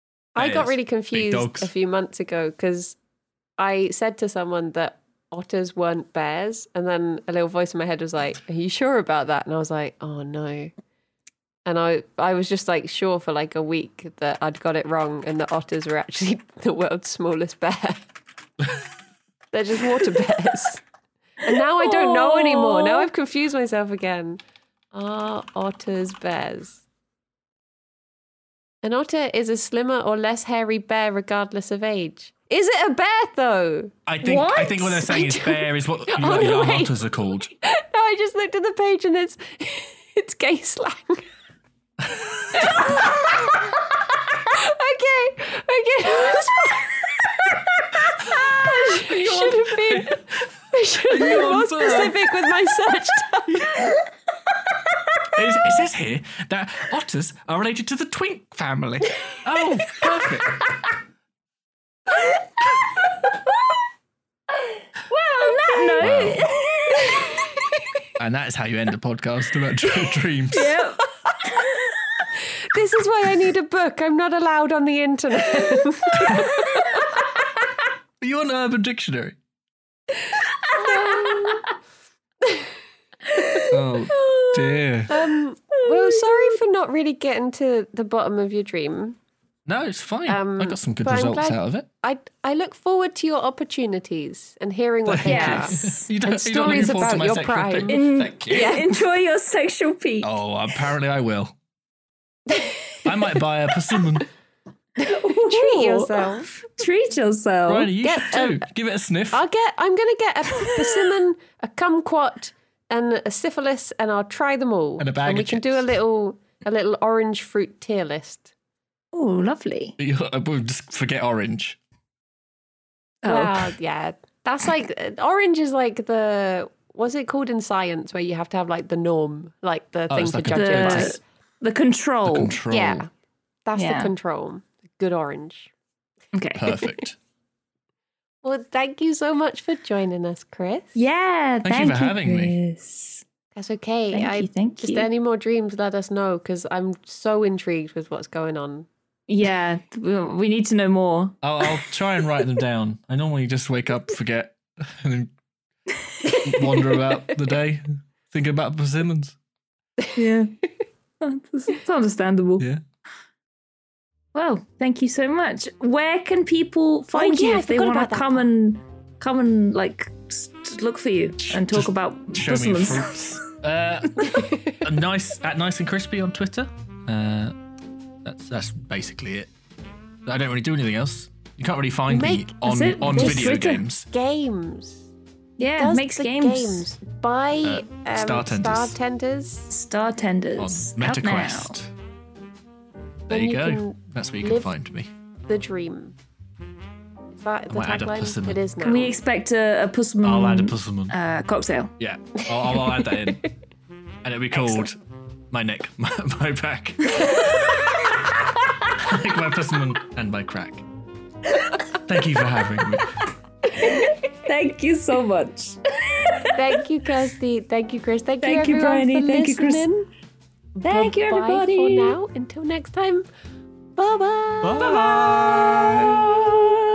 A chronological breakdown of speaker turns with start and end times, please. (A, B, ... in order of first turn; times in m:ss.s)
0:00.3-0:03.0 A
0:00.4-0:01.7 B
0:03.6-0:10.7 A
0:11.6-0:18.1 A
0:19.5-0:20.8 A
0:21.4-0:24.4 A
0:21.8-0:23.1 C
0:24.9-0:26.8 A
0:28.8-0:33.9 A
0:34.0-0:37.5 B
0:34.2-0:35.3 C
0:35.1-0:41.2 A
0:42.0-0:42.9 B
0:42.5-0:47.0 A
0:48.0-0:53.7 A
0:48.3-0:50.2 B
0:51.1-0:52.1 B
0:53.5-0:53.9 B
0:55.3-1:00.7 B
1:05.1-1:07.4 C
1:05.3-1:06.0 A
1:06.0-1:06.5 B
1:07.1-1:07.8 A
1:08.2-1:10.8 B
1:10.5-1:12.2 C
1:12.6-1:17.1 A
1:16.2-1:16.5 B
1:18.2-1:19.4 B
1:20.2-1:21.7 A
1:20.5-1:21.7 C
1:22.4-1:22.7 A
1:23.3-1:24.8 C
1:23.7-1:25.2 B
1:25.1-1:29.2 A
1:25.7-1:26.6 C
1:29.6-1:31.9 B
1:30.3-1:39.0 A
1:35.0-1:38.8 B
1:35.2-1:36.1 C
1:37.9-1:40.3 C
1:40.2-1:41.6 B
1:42.5-1:43.1 A
1:43.0-1:44.3 B
1:45.0-1:46.8 A
1:45.0-1:47.9 C
1:47.6-1:49.4 B
1:48.0-1:48.6 A
1:49.3-1:58.5 A
1:55.0-1:55.9 B
1:59.1-1:59.9 C
2:00.0-2:01.8 B
2:03.2-2:03.6 C
2:03.2-2:11.2 A
2:10.1-2:11.2 B
2:10.5-2:12.6 C
2:12.2-2:13.0 B
2:12.7-2:13.1 A
2:13.6-2:15.7 A
2:13.8-2:14.1 C
2:16.3-2:16.6 C
2:16.5-2:17.2 B
2:16.7-2:17.0 A
2:18.4-2:21.0 A
2:20.9-2:23.2 C
2:21.6-2:22.6 B
2:23.5-2:28.9 A
2:24.1-2:25.1 C
2:29.3-2:31.8 C
2:31.4-2:35.3 B
2:36.2-2:36.7 C
2:36.4-2:39.4 B
2:40.1-2:40.5 C
2:41.2-2:42.6 C
2:44.3-2:53.5 C
2:47.1-2:48.5 A
2:51.4-2:57.6 B
2:54.4-2:54.8 A
2:58.2-2:59.5 B
3:00.2-3:04.1 B
3:02.1-3:05.1 A
3:02.6-3:03.8 C
3:05.6-3:06.9 C
3:05.8-3:09.7 A
3:07.6-3:09.0 B
3:09.7-3:11.8 C
3:10.6-3:11.9 B
3:13.3-3:14.7 A
3:13.3-3:15.1 B
3:15.5-3:16.1 A
3:17.3-3:19.2 A
3:17.7-3:18.6 B
3:18.8-3:21.9 C
3:20.2-3:21.1 B
3:22.0-3:23.4 B
3:22.4-3:23.3 A
3:24.2-3:25.0 B
3:25.5-3:27.4 B
3:27.1-3:27.9 C
3:28.9-3:30.8 B
3:32.0-3:33.2 B
3:33.8-3:34.1 A
3:33.8-3:36.8 C
3:36.6-3:40.1 A
3:38.4-3:39.8 C
3:40.8-3:43.3 A
3:40.8-3:42.2 C
3:44.0-3:45.0 A
3:44.6-3:46.7 B